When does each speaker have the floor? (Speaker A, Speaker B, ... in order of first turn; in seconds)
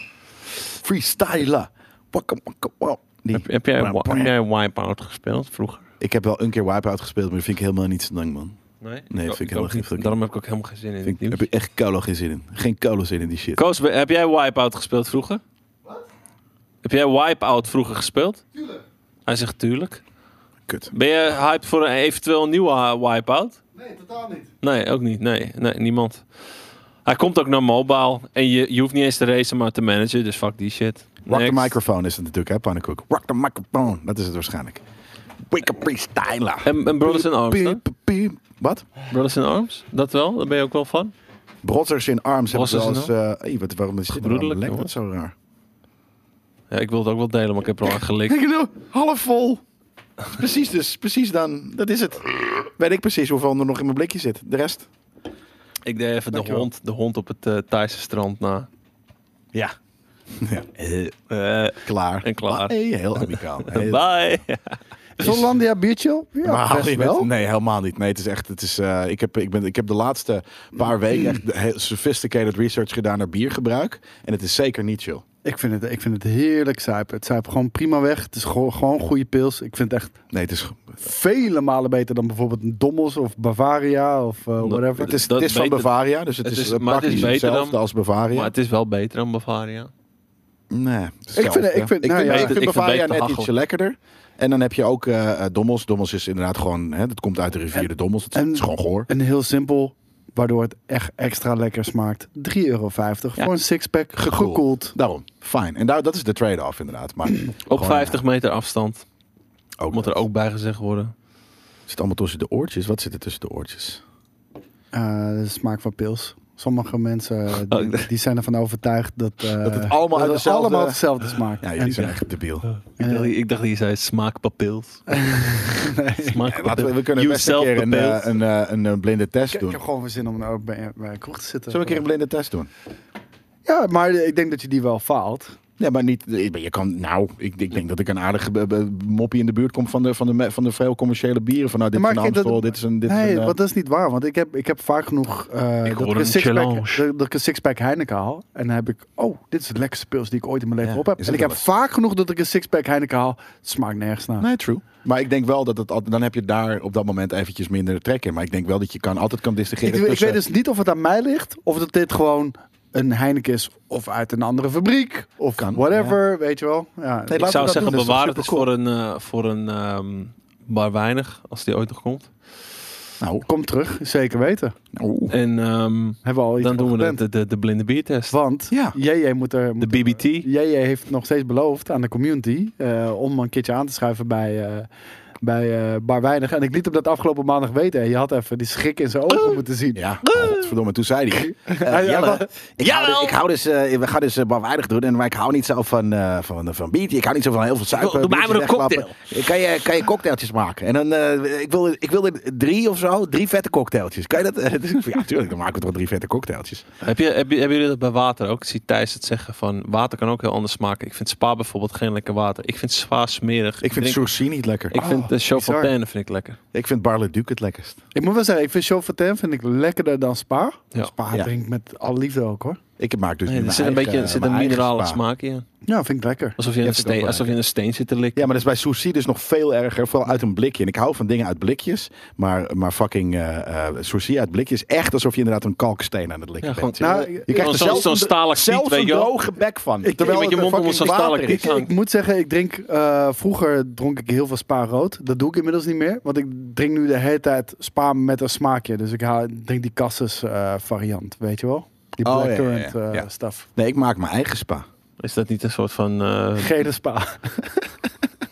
Speaker A: 0.8-4.3, 6.0-8.6, 9.1-10.2, 11.0-13.6, 31.3-34.8, 35.5-38.9, 41.6-45.3, 48.3-49.6, 50.3-54.9, 60.4-61.1, 61.8-64.0, 66.4-75.2, 80.3-81.0, 85.0-88.5, 90.7-99.1, 104.2-108.2, 109.8-110.2, 111.9-114.0, 119.6-121.0, 121.6-122.7, 126.5-129.8, 131.7-132.7, 135.8-143.5, 150.8-151.6, 154.4-160.4, 165.6-166.2, 167.3-168.7, 173.2-173.5, 174.9-175.3, 178.7-179.0, 189.9-206.8, 213.8-215.0, 216.7-218.0, 223.0-225.2, 226.8-227.5, 228.3-241.7, 252.2-254.8
Speaker B: 3.3-5.8, 8.8-11.4, 13.6-15.4, 16.8-18.4, 19.2-20.0, 20.9-23.6, 24.6-26.2, 27.0-31.8, 36.6-37.8, 39.1-41.1, 42.5-43.1, 44.1-44.9, 46.7-48.4, 55.9-58.7, 61.3-65.4, 84.6-87.8, 88.3-89.9, 92.2-93.5, 107.7-109.0, 109.9-111.1, 117.7-118.1, 122.7-125.5, 126.2-128.3, 145.8-147.0, 167.4-172.3, 175.3-178.4, 179.8-180.5, 190.2-190.7, 192.8-193.3, 197.9-199.2, 207.0-214.2, 214.9-216.6, 223.5-225.6, 226.6-228.5, 236.6-239.3, 240.1-241.9, 255.2-256.8
Speaker C: 18.6-18.8, 23.7-24.5, 56.3-56.6, 65.2-67.3, 75.4-80.2, 81.0-85.1, 91.3-92.6, 97.7-104.9, 114.9-122.2, 123.0-123.3, 125.1-126.4, 129.5-132.0, 133.6-135.6, 141.9-154.4, 159.8-167.6, 173.5-174.7, 176.2-177.2, 178.3-184.9, 185.4-190.0, 191.3-192.5, 214.9-215.9, 218.1-222.8, 225.8-226.6, 237.0-238.2, 240.0-240.7, 241.5-253.7, 256.6-257.9